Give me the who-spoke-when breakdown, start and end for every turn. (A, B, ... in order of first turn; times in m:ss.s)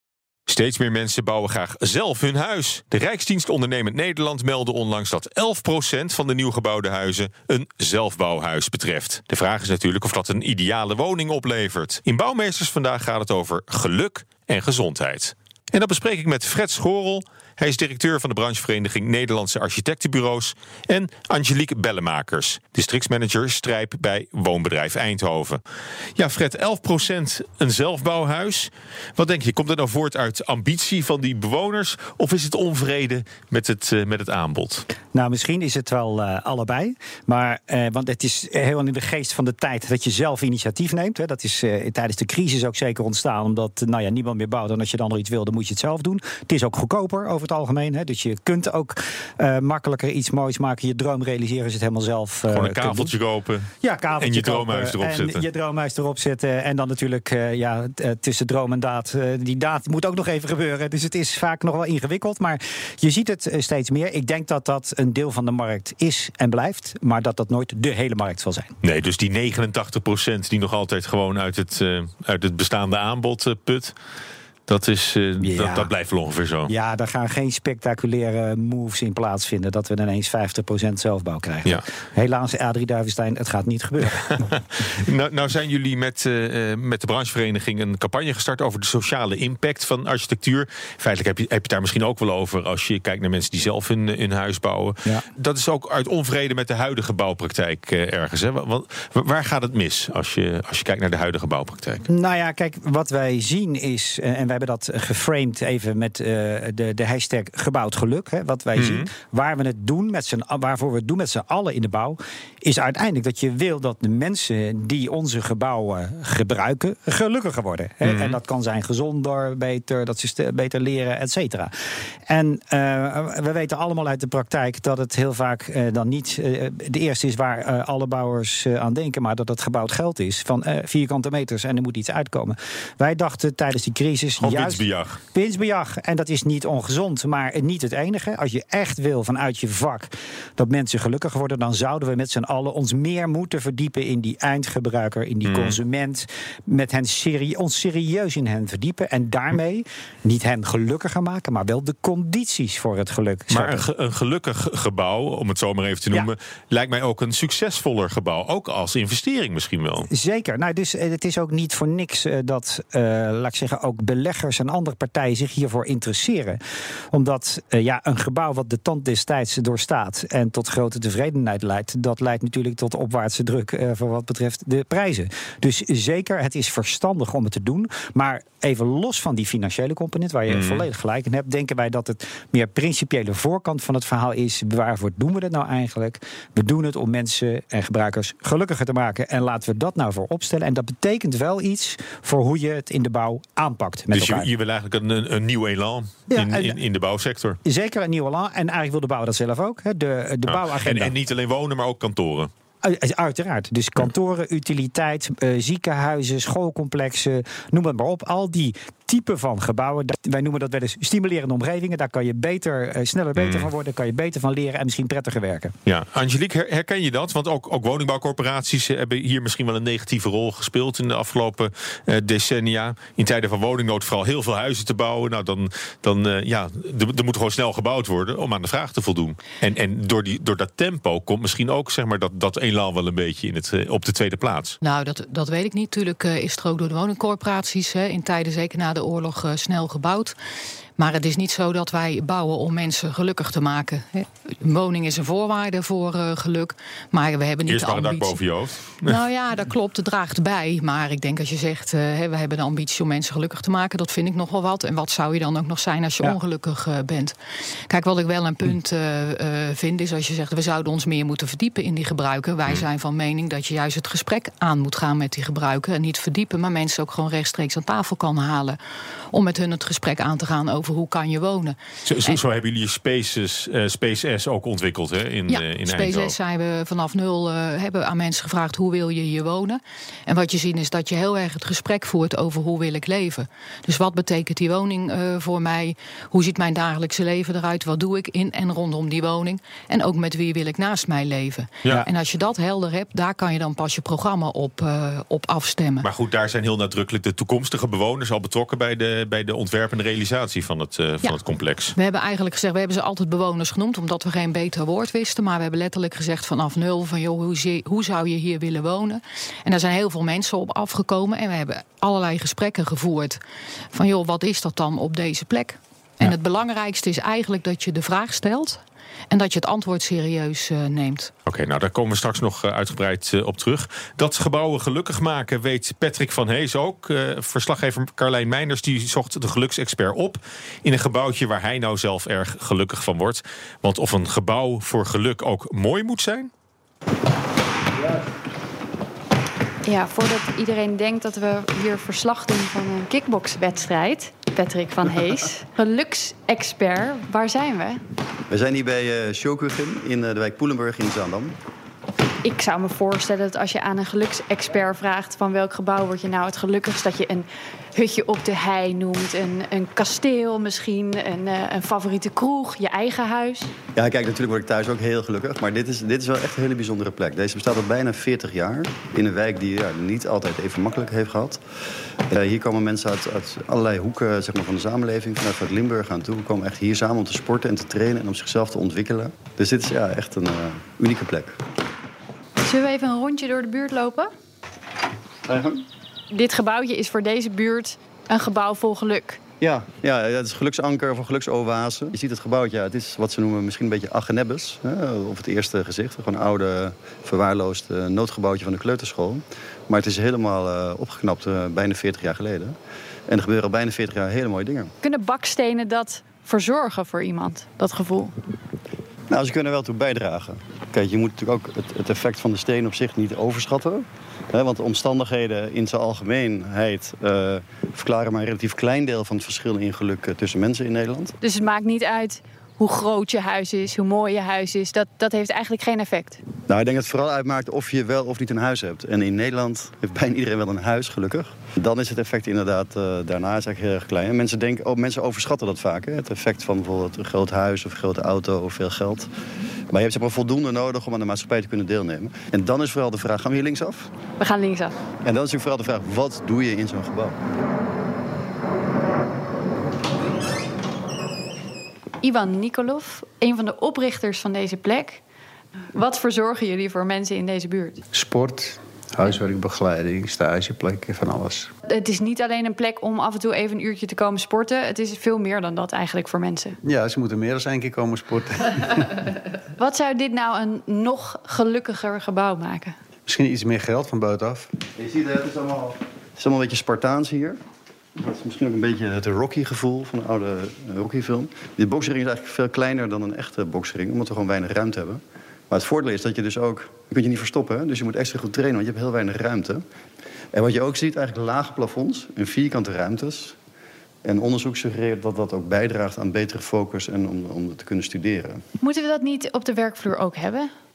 0:00.5-0:25.6 A
0:26.2-0:34.9 A
0:35.1-0:53.1 B
0:52.5-0:55.4 A
0:53.8-1:08.7 B
1:08.8-1:13.9 A
1:14.7-1:16.7 A
1:15.4-1:15.9 B
1:16.7-1:24.5 B
1:24.2-1:42.0 A
1:42.1-2:01.7 B
1:48.8-1:49.1 A
1:58.0-1:58.4 A
2:02.3-2:33.8 B
2:14.4-2:15.2 A
2:25.4-2:25.8 A
2:33.5-2:40.1 A
2:40.1-3:14.5 B
3:00.5-3:00.8 A
3:14.1-3:17.6 A
3:16.3-3:16.8 B
3:17.6-3:21.1 B
3:20.5-3:22.5 A
3:22.8-3:35.8 B
3:33.4-3:33.7 A
3:35.9-3:54.8 A
3:54.8-4:00.4 C
4:01.0-4:08.4 C
4:07.7-4:09.2 A
4:09.0-4:17.4 C
4:17.9-4:28.8 C
4:29.3-4:32.4 C
4:32.0-4:36.3 A
4:35.5-4:56.1 C
4:56.0-5:02.0 A
5:02.0-5:13.4 C
5:13.9-5:21.3 C
5:21.5-5:36.5 A
5:39.8-5:48.0 D
5:48.5-5:51.6 E
5:52.4-6:03.7 D
6:04.0-6:11.6 E
6:12.3-6:21.6 E
6:22.6-6:24.3 D
6:25.5-6:25.8 E
6:26.3-6:29.4 D
6:29.6-6:42.8 E
6:43.3-6:44.9 E
6:45.0-6:48.4 D
6:49.3-7:01.4 E
7:01.4-7:06.4 D
7:06.7-7:19.3 E
7:19.9-7:24.1 E
7:24.4-7:25.0 D
7:25.2-7:27.4 E
7:32.2-7:35.2 D
7:35.9-7:38.0 D
7:38.1-7:41.7 F
7:41.9-7:46.8 D
7:46.8-7:49.1 F
7:49.8-7:53.0 D
7:53.3-7:54.7 F
7:55.0-7:57.6 E
7:58.2-8:09.8 E
8:10.5-8:13.6 E
8:14.2-8:18.6 E
8:18.8-8:20.7 D